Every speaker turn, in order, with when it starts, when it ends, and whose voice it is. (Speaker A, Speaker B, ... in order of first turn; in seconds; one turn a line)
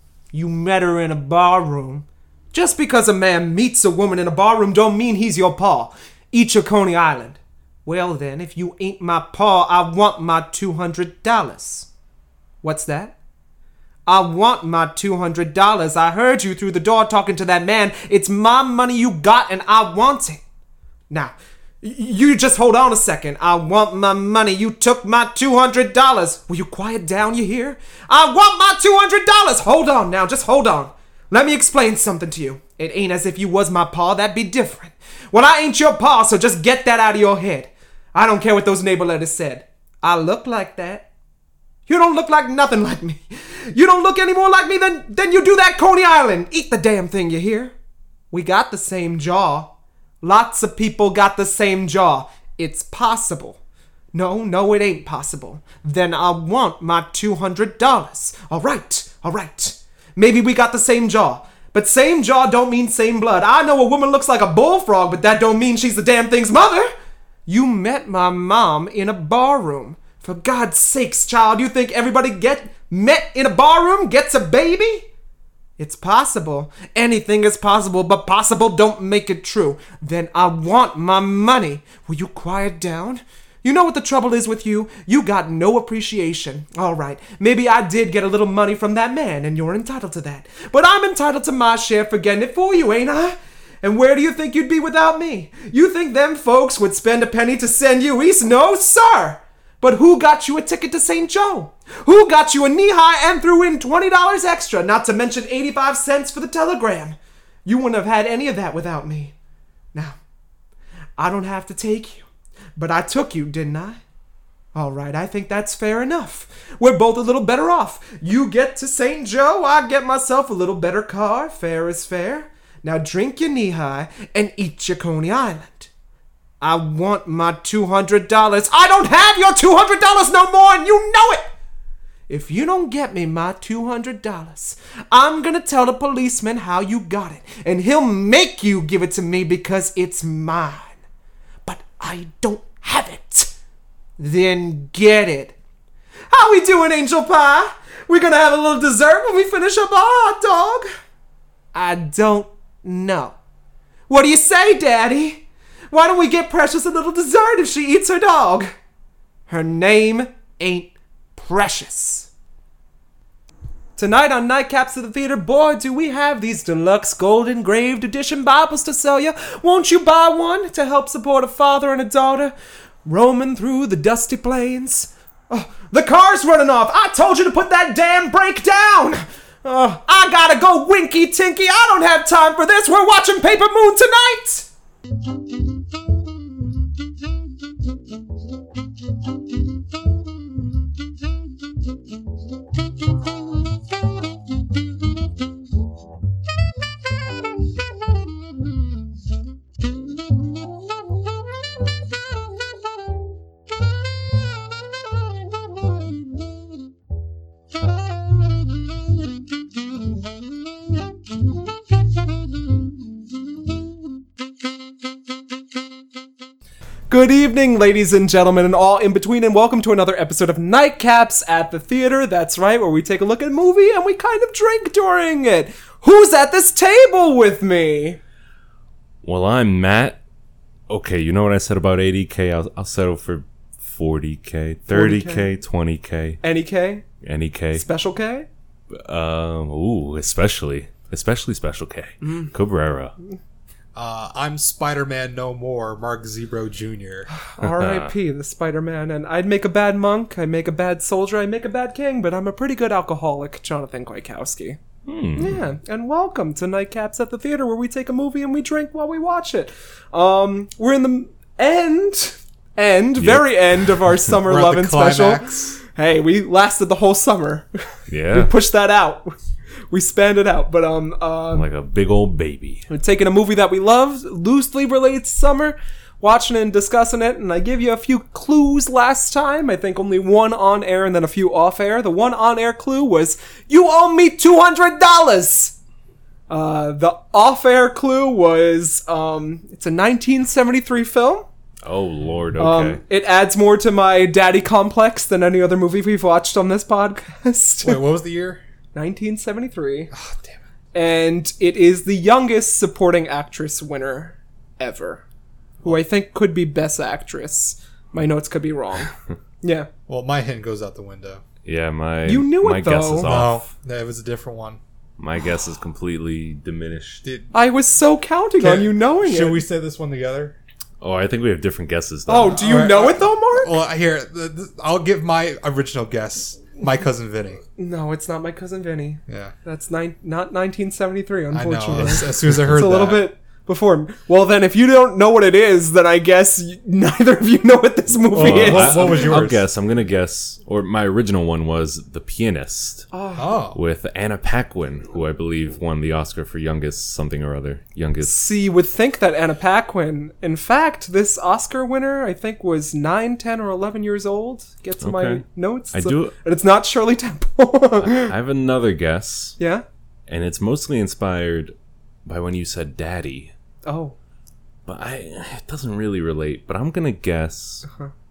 Speaker A: 0.3-11.9
Speaker A: 12.6-13.2
Speaker A: 14.1-20.4
Speaker A: 21.1-41.1
Speaker A: 41.9-47.7
Speaker A: 48.3-53.6
Speaker A: 54.1-66.9
Speaker A: 67.5-75.1
Speaker A: 75.8-109.3
Speaker A: 111.2-114.0
Speaker A: 114.8-125.9
Speaker A: 126.6-131.5
Speaker A: 132.3-141.0
Speaker A: 141.7-143.5
Speaker A: 144.2-145.6
Speaker A: 146.3-150.9
Speaker A: 151.7-153.4
Speaker A: 154.1-158.7
Speaker A: 159.5-162.3
Speaker A: 164.0-172.5
Speaker A: 173.1-184.7
Speaker A: 217.1-228.2
Speaker B: 229.2-230.2
Speaker B: 230.9-236.4
Speaker A: 234.9-235.5
Speaker A: 236.4-237.0
Speaker B: 237.2-237.9
Speaker A: 237.8-238.5
Speaker B: 238.9-243.1
Speaker A: 242.2-242.5
Speaker C: 243.9-247.3
Speaker A: 247.3-254.8
Speaker B: 247.6-248.1
Speaker B: 255.1-255.6
Speaker A: 255.3-267.7
Speaker B: 263.2-264.0
Speaker C: 264.4-265.8
Speaker B: 268.1-268.5
Speaker A: 268.3-269.3
Speaker A: 269.9-271.7
Speaker B: 271.5-272.9
Speaker A: 272.9-285.8
Speaker A: 286.5-291.5
Speaker B: 291.8-293.0
Speaker A: 292.6-298.0
Speaker C: 297.8-298.6
Speaker A: 298.9-300.1
Speaker C: 300.1-300.6
Speaker A: 300.9-305.2
Speaker A: 305.8-309.9
Speaker C: 310.1-311.4
Speaker B: 311.6-313.6
Speaker A: 312.2-313.6
Speaker C: 313.2-314.8
Speaker B: 315.2-317.2
Speaker C: 317.2-317.5
Speaker A: 317.5-319.6
Speaker C: 318.6-320.6
Speaker B: 321.0-322.6
Speaker A: 322.3-323.8
Speaker C: 322.5-327.6
Speaker A: 327.8-339.4
Speaker C: 329.3-329.5
Speaker C: 331.5-333.2
Speaker C: 338.3-339.6
Speaker B: 338.3-343.1
Speaker A: 343.1-343.6
Speaker C: 343.4-343.8
Speaker B: 343.8-348.3
Speaker A: 348.2-358.3
Speaker B: 355.0-356.3
Speaker B: 358.0-359.6
Speaker A: 359.6-359.8
Speaker B: 360.3-361.7
Speaker B: 362.2-363.5
Speaker A: 363.9-364.1
Speaker B: 364.9-367.9